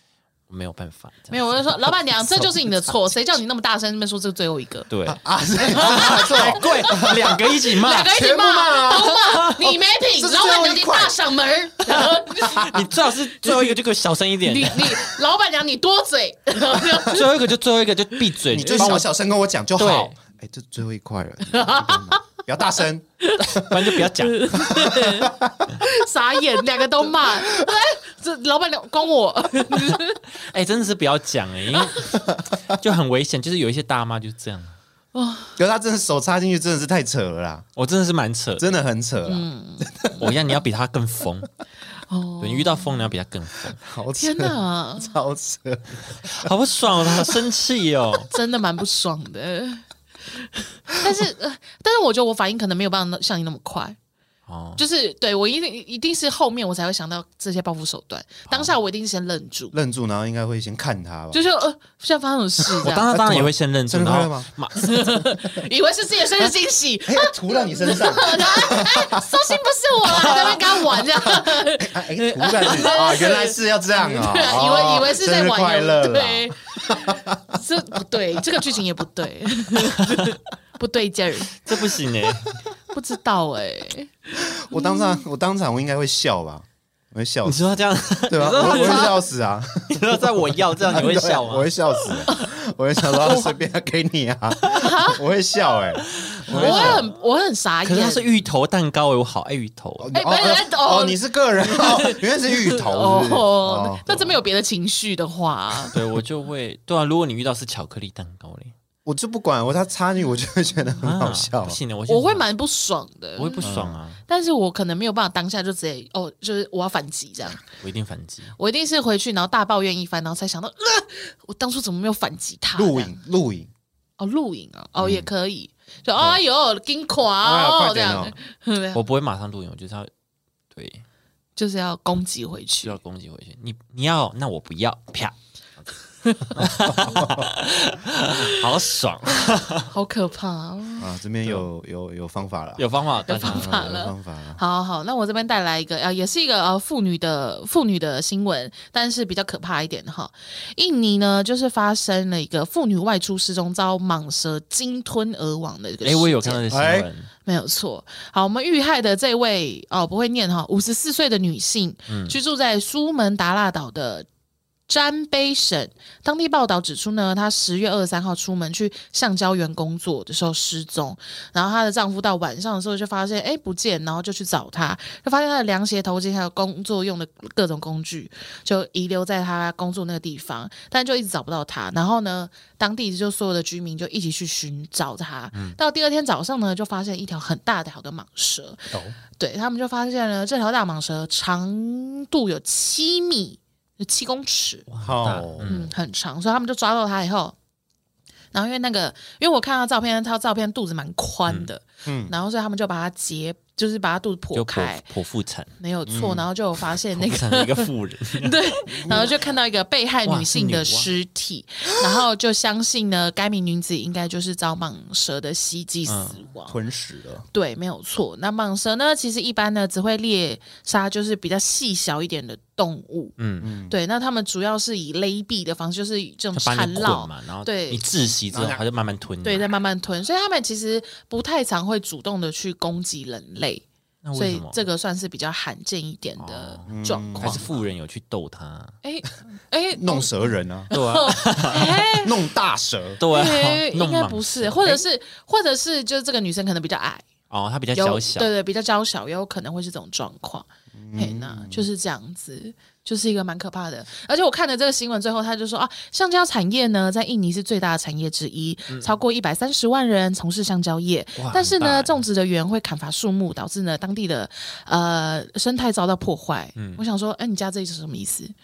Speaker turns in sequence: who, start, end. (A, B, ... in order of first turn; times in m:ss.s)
0:00.5-0:01.9 A
0:01.3-0:04.9 B
0:04.9-0:05.2 A
0:05.1-0:07.4 C
0:05.7-0:08.1 A
0:05.7-0:12.8 B
0:08.1-0:09.2 C
0:10.1-0:11.2 C
0:11.8-0:12.8 C
0:12.5-0:15.1 A
0:13.4-0:13.7 B
0:14.4-0:17.3 B
0:17.1-0:19.1 A
0:18.5-0:23.1 C
0:19.8-0:20.2 A
0:21.5-0:22.2 B
0:23.2-0:30.2 B
0:23.4-0:24.8 A
0:24.6-0:25.7 C
0:27.3-0:27.7 C
0:29.9-0:34.8 A
0:35.1-0:35.6 B
0:35.6-0:37.7 C
0:37.8-0:38.7 A
0:38.6-0:40.3 C
0:39.2-0:40.2 B
0:40.2-0:41.5 A
0:42.1-0:43.1 B
0:42.4-0:43.8 A
0:43.8-0:46.5 C
0:44.2-0:45.1 B
0:46.1-0:48.3 A
0:48.3-0:54.0 B
0:54.5-0:54.8 A
0:54.8-0:59.7 B
0:59.7-1:01.4 C
1:01.3-1:03.1 B
1:02.7-1:04.5 C
1:02.8-1:05.2 A
1:04.8-1:21.6 B
1:07.0-1:09.5 C
1:10.1-1:10.7 C
1:11.2-1:17.6 C
1:19.8-1:20.4 A
1:21.6-1:22.5 A
1:22.9-1:25.2 B
1:24.3-1:27.6 C
1:27.4-1:29.2 A
1:28.3-1:37.0 C
1:28.5-1:29.1 B
1:29.9-1:32.4 A
1:34.6-1:34.9 A
1:34.7-1:35.2 B
1:36.0-1:37.1 A
1:36.5-1:38.3 B
1:37.8-1:40.1 A
1:40.0-1:44.3 C
1:40.1-1:46.0 B
1:45.9-1:48.7 A
1:49.0-1:51.8 C
1:51.0-1:52.4 A
1:52.1-1:57.6 B
1:53.4-1:54.2 A
1:53.6-1:54.0 C
1:57.8-1:58.5 A
1:58.6-2:03.2 B
2:02.8-2:03.7 C
2:04.2-2:09.0 B
2:05.0-2:05.3 C
2:07.4-2:08.3 C
2:08.9-2:10.1 A
2:10.7-2:11.0 A
2:11.6-2:13.0 B
2:12.8-2:15.9 A
2:16.5-2:19.9 A
2:16.6-2:17.5 C
2:19.4-2:21.1 B
2:21.0-2:22.8 C
2:22.8-2:23.9 A
2:23.3-2:36.6 B
2:23.4-2:24.6 C
2:36.0-2:37.3 A
2:36.7-2:37.1 C
2:37.4-2:44.3 B
2:42.1-2:42.4 A
2:44.9-3:14.9 B
3:05.5-3:05.8 A
3:14.9-3:15.9 A
3:15.0-3:15.9 C
3:15.6-3:17.5 B
3:18.5-3:25.0 B
3:22.0-3:22.3 C
3:24.5-3:25.7 A
3:25.8-3:36.8 B
3:26.0-3:26.5 C
3:27.1-3:28.6 A
3:28.9-3:29.4 C
3:30.2-3:31.1 A
3:36.1-3:36.4 A
3:36.7-3:37.4 C
3:37.5-3:43.4 B
3:43.4-3:43.7 A
3:43.6-3:44.0 C
3:43.9-3:48.0 B
3:46.5-3:49.7 A
3:48.5-3:48.8 C
3:49.4-3:53.8 B
3:54.2-3:54.8 A
3:54.4-3:57.8 B
3:56.4-3:58.9 A
3:56.9-3:57.6 C
3:59.0-4:02.4 B
3:59.9-4:00.9 C
4:00.9-4:02.1 A
4:02.1-4:03.2 C
4:03.2-4:05.0 A
4:03.3-4:07.2 B
4:07.5-4:08.5 A
4:07.9-4:28.5 B
4:10.9-4:11.9 C
4:21.4-4:22.2 A
4:26.8-4:27.0 A